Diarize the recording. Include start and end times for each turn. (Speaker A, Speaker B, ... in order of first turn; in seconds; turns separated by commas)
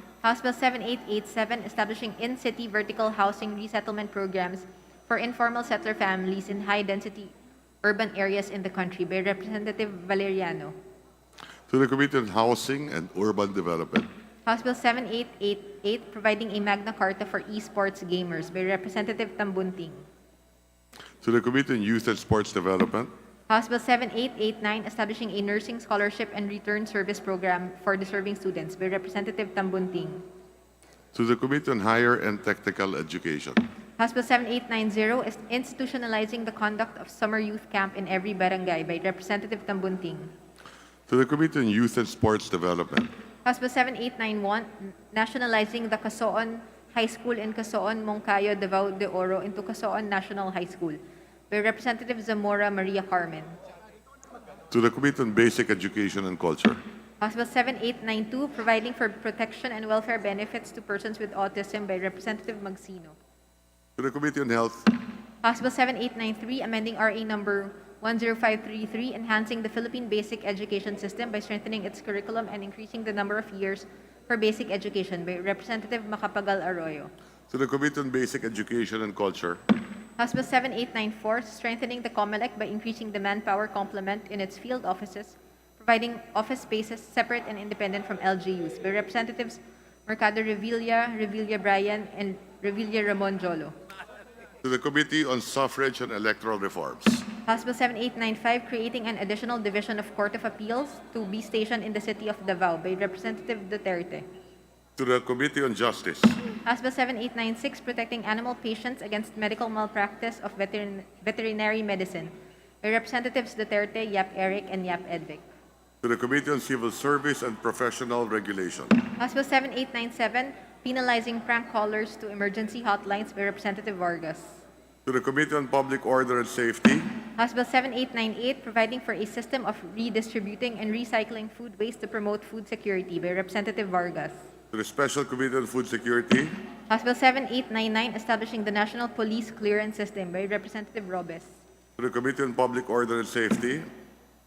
Speaker A: 0.2-10.7, Speaker B: 11.7-14.1, Speaker A: 14.4-20.0, Speaker B: 21.2-23.1, Speaker A: 23.5-30.2, Speaker B: 31.1-33.6, Speaker A: 34.0-40.3, Speaker B: 41.1-43.1, Speaker A: 43.4-51.0, Speaker A: 51.5-53.5, Speaker B: 54.7-56.8, Speaker A: 57.2-63.1, Speaker B: 64.0-64.9, Speaker A: 65.4-77.1, Speaker B: 77.5-79.6, Speaker A: 80.2-93.7, Speaker B: 94.6-97.3, Speaker A: 97.5-104.2, Speaker B: 105.0-106.4, Speaker A: 106.7-112.3, Speaker A: 112.8-115.4, Speaker B: 116.0-119.0, Speaker A: 119.2-124.6, Speaker B: 125.0-127.1, Speaker A: 127.4-134.4, Speaker B: 134.7-136.5, Speaker A: 136.9-141.5, Speaker B: 142.0-143.8